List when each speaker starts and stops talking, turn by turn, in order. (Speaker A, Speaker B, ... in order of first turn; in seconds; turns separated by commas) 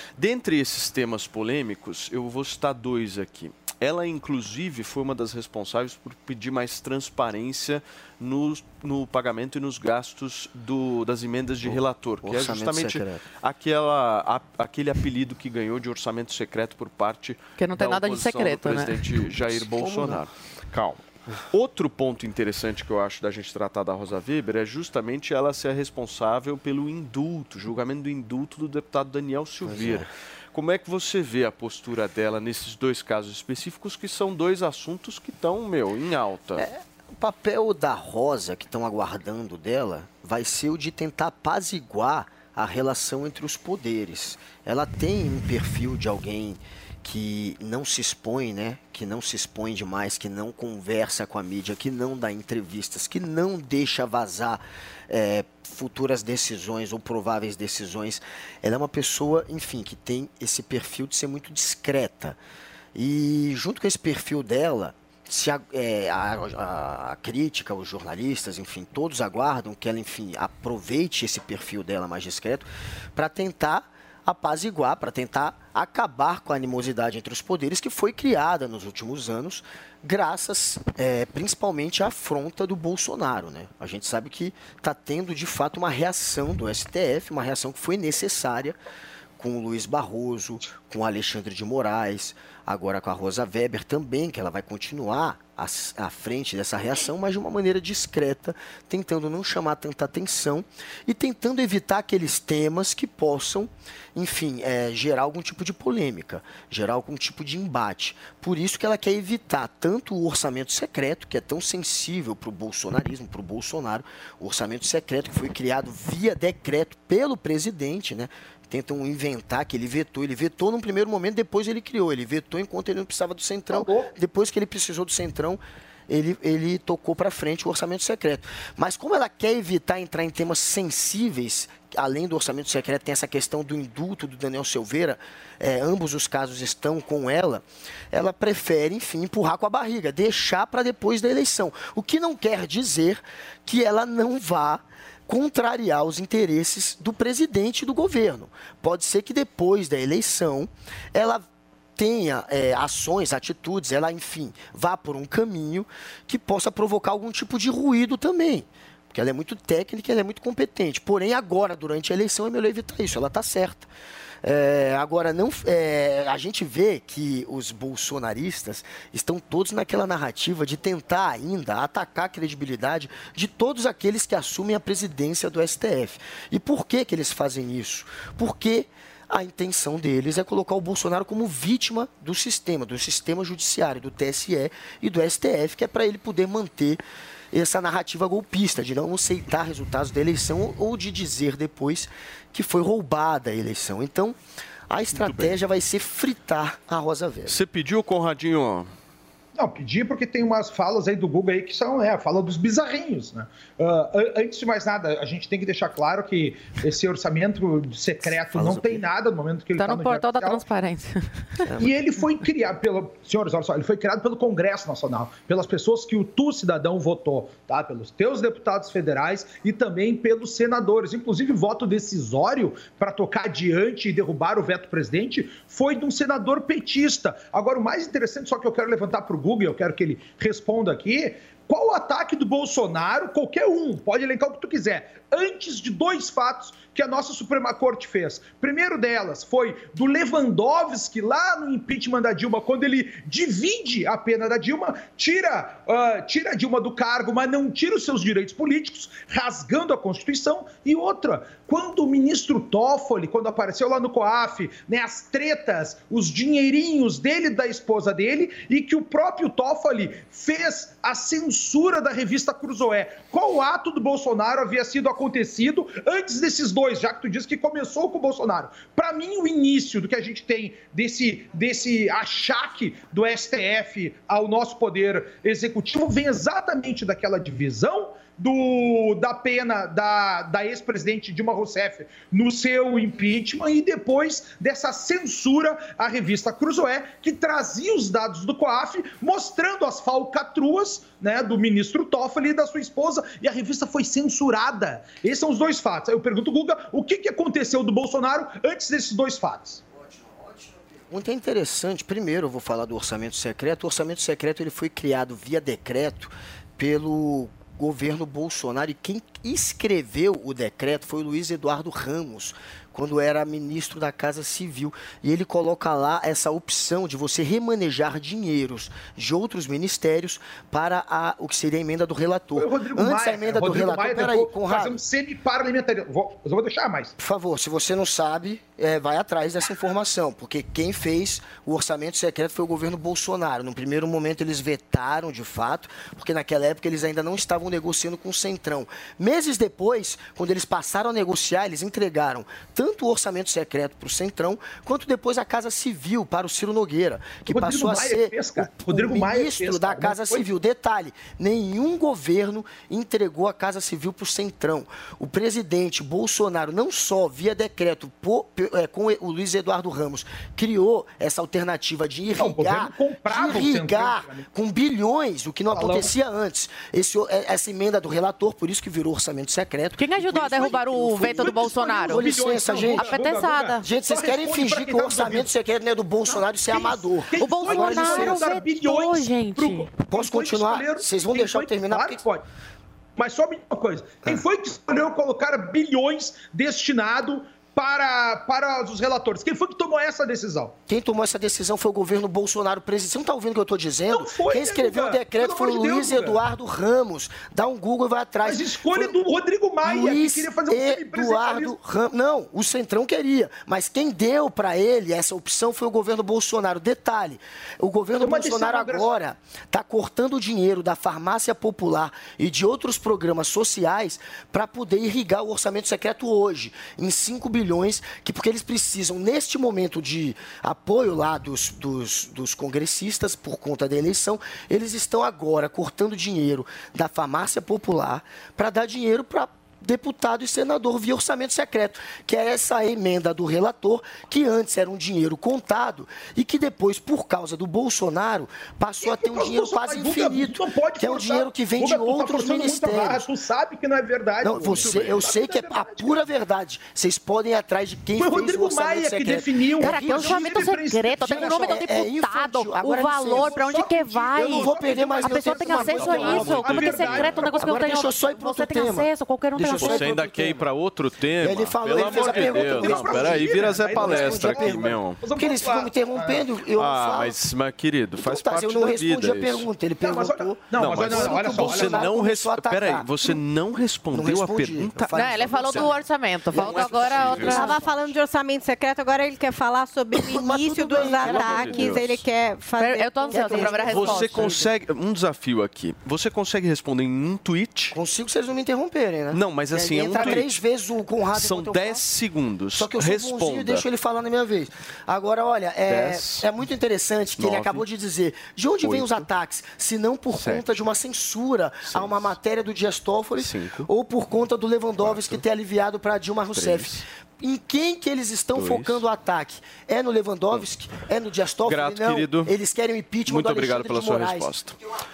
Speaker A: 0.2-36.7, Speaker B: 11.6-13.2, Speaker C: 17.6-19.0, Speaker B: 19.4-20.2, Speaker B: 29.6-30.1, Speaker B: 36.6-62.4, Speaker B: 62.9-88.8, Speaker B: 89.4-151.4, Speaker D: 123.7-124.1, Speaker B: 151.9-163.9, Speaker B: 164.4-194.4, Speaker B: 194.9-197.6, Speaker A: 195.1-195.6, Speaker A: 197.5-198.9, Speaker D: 199.6-210.6, Speaker B: 208.3-209.0, Speaker C: 209.7-211.6, Speaker B: 211.6-211.9, Speaker D: 211.8-299.8, Speaker B: 300.1-325.0, Speaker D: 322.5-327.1, Speaker B: 327.2-373.1, Speaker D: 347.5-350.4, Speaker D: 362.4-364.4, Speaker D: 365.7-366.1, Speaker C: 370.0-372.3, Speaker D: 370.5-375.5, Speaker C: 372.9-373.9, Speaker B: 373.8-378.5, Speaker D: 376.3-382.4, Speaker C: 377.4-379.9, Speaker B: 380.1-382.2, Speaker D: 383.2-390.8, Speaker B: 390.9-399.1, Speaker D: 394.1-396.4, Speaker D: 398.4-401.7, Speaker B: 399.8-443.2, Speaker D: 408.2-409.1, Speaker D: 439.0-446.2, Speaker B: 444.4-460.6, Speaker A: 444.5-445.2, Speaker D: 448.1-451.8, Speaker C: 449.8-460.1, Speaker D: 453.3-457.8, Speaker A: 456.0-457.4, Speaker A: 459.7-465.2, Speaker B: 461.4-467.3, Speaker D: 461.9-466.4, Speaker A: 466.8-469.7, Speaker B: 468.2-473.4, Speaker D: 470.0-472.1, Speaker A: 470.8-475.9, Speaker B: 474.1-475.9, Speaker C: 475.1-477.8, Speaker B: 476.5-477.8, Speaker A: 476.5-477.9, Speaker E: 477.5-484.7, Speaker B: 480.1-482.1, Speaker A: 480.9-482.2, Speaker C: 482.8-484.5, Speaker B: 483.3-483.8, Speaker A: 483.7-487.9, Speaker B: 487.9-492.0, Speaker A: 489.3-490.6, Speaker A: 491.3-493.9, Speaker B: 492.7-514.5, Speaker A: 495.9-496.5, Speaker A: 497.4-497.8, Speaker A: 498.8-499.3, Speaker A: 500.3-500.9, Speaker A: 501.9-502.4, Speaker A: 503.4-503.9, Speaker A: 505.0-505.4, Speaker A: 506.5-507.0, Speaker A: 508.5-509.0, Speaker A: 511.6-512.5, Speaker A: 513.3-514.8